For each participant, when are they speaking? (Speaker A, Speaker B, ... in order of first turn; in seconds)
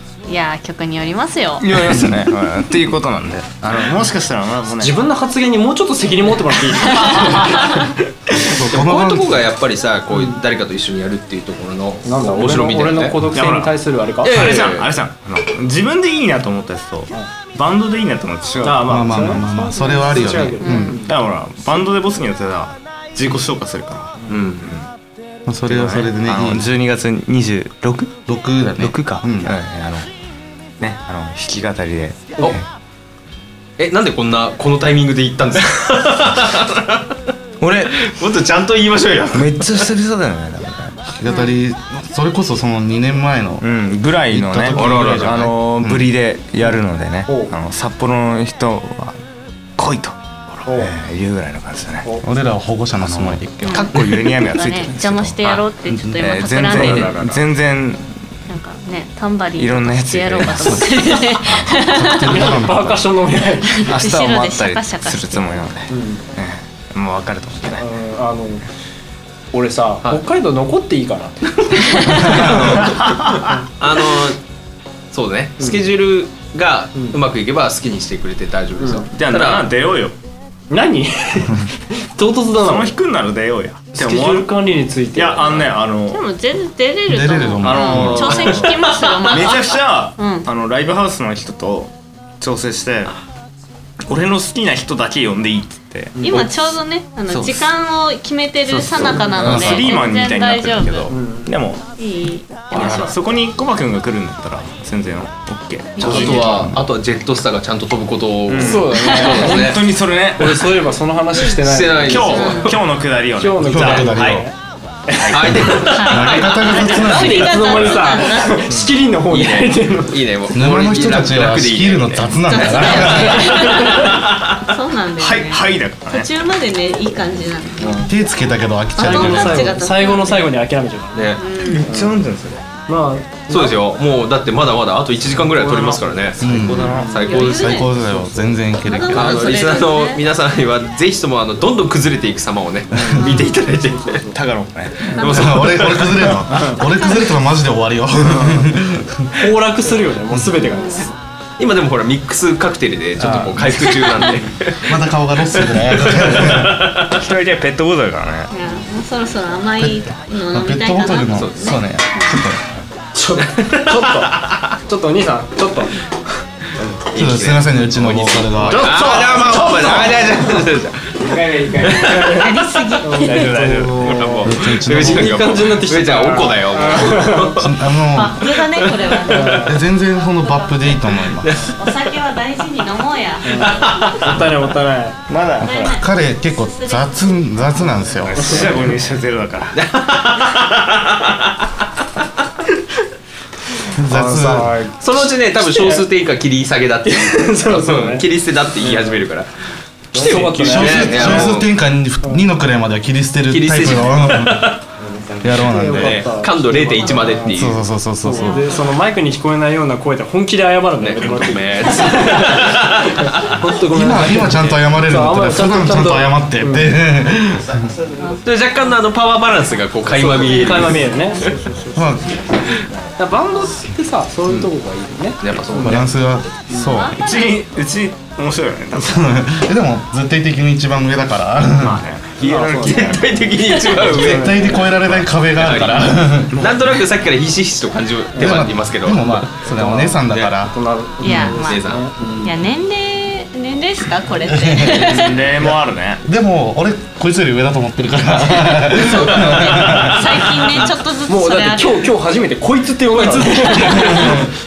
Speaker A: 0.3-1.8, 20.6-20.9, 41.2-41.6, 53.6-57.2, 58.5-62.4, 63.7-65.6, 86.1-90.5, 96.2-101.1, 102.0-103.2, 106.0-106.7, 109.0-109.3, 112.3-112.8, 115.9-118.8, 122.5-128.1, 129.0-130.6, 131.4-131.8, 137.2-137.9, 138.8-140.2, 145.2-145.5, 147.0-147.3, 150.7-151.1, 153.8-154.4, 158.5-162.4, 172.2-173.6, 178.1-184.4, 185.6-187.5, 226.8-227.5, 241.2-241.9, 242.4-245.4, 249.2-252.1, 253.4-253.9
Speaker B: 1.6-5.0, 7.0-7.7, 13.3-19.5, 21.0-24.9, 25.7-28.2, 28.8-30.1, 30.8-32.7, 37.6-38.0, 39.3-41.0, 43.6-49.2, 49.8-52.1, 53.0-55.7, 56.2-58.1, 59.6-61.9, 63.8-67.8, 72.2-73.5, 79.1-80.2, 82.6-84.5, 85.2-86.2, 87.6-93.2, 94.0-96.5, 97.3-97.7, 98.7-101.8, 102.7-106.7, 108.5-110.8, 112.0-114.5, 115.2-115.7, 125.2-126.3, 131.6-132.6, 135.7-137.4, 143.0-143.4, 144.3-146.5, 157.1-158.5, 168.7-170.7, 171.2-172.5, 173.2-174.3, 185.3-186.0, 188.3-189.8, 200.2-200.9, 205.2-205.5, 227.1-229.4, 231.7-233.4, 234.9-235.3, 236.5-236.9, 240.3-240.5, 245.1-246.2
Speaker C: 4.8-7.9, 10.1-10.4, 12.1-14.3, 18.6-21.1, 47.3-47.5, 50.6-50.9, 56.6-57.4, 62.2-63.9, 65.9-66.2, 67.8-68.6, 69.5-72.8, 78.8-79.0, 80.7-83.0, 84.0-85.8, 96.2-96.5, 101.1-101.5, 108.6-112.6, 113.3-114.5, 115.1-115.7, 117.1-120.2, 123.5-124.1, 129.0-132.1, 132.9-133.8, 135.7-136.0, 136.9-138.6, 143.9-144.3, 148.2-148.7, 149.3-151.1, 163.2-166.1, 168.8-169.7, 171.9-172.5, 173.0-177.6, 179.3-179.8, 183.4-185.2, 194.1-195.0, 195.6-196.0, 197.1-198.2, 198.8-199.2, 200.1-201.6, 205.6-216.9, 220.2-221.9, 223.2-226.0, 226.7-227.0, 232.4-233.2, 233.9-234.9, 239.7-242.6, 251.3-254.5
Speaker D: 8.4-9.4, 18.9-21.0, 25.5-26.7, 28.3-29.6, 41.2-43.6, 44.3-46.1, 52.2-54.0, 55.9-57.1, 60.5-63.0, 72.1-72.6, 87.1-88.4, 99.5-99.8, 106.2-106.8, 113.6-114.5, 115.5-117.6, 120.5-123.6, 128.1-129.8, 136.4-139.4, 145.2-149.4, 154.8-156.9, 160.5-162.7, 167.1-168.9, 174.4-175.6, 177.6-178.6, 179.5-181.6, 185.9-188.5, 193.9-194.8, 200.5-204.8, 205.4-206.3, 207.5-208.6, 213.9-217.9, 221.9-222.5, 225.8-227.2, 229.0-232.0, 234.0-236.6, 238.3-240.8, 244.5-250.7, 253.8-254.5
Speaker E: 8.5-13.2, 14.2-14.9, 24.3-24.7, 33.8-37.1, 37.9-39.9, 44.7-45.5, 71.7-72.7, 73.8-74.4, 75.1-79.7, 88.7-89.1, 106.0-109.9, 111.5-112.8, 115.3-118.6, 119.3-124.7, 131.2-131.4, 133.5-136.5, 137.1-137.8, 139.1-144.2, 145.1-146.3, 151.6-154.9, 155.8-157.2, 161.3-161.8, 163.4-164.7, 167.1-172.4, 174.0-178.0, 178.8-179.1, 181.4-181.7, 183.7-184.4, 189.7-191.7, 195.0-199.5, 200.2-201.7, 203.5-204.8, 205.9-207.8, 211.0-213.5, 218.4-221.7, 225.4-226.3, 232.4-234.7, 235.4-239.5, 241.4-242.1, 248.9-250.2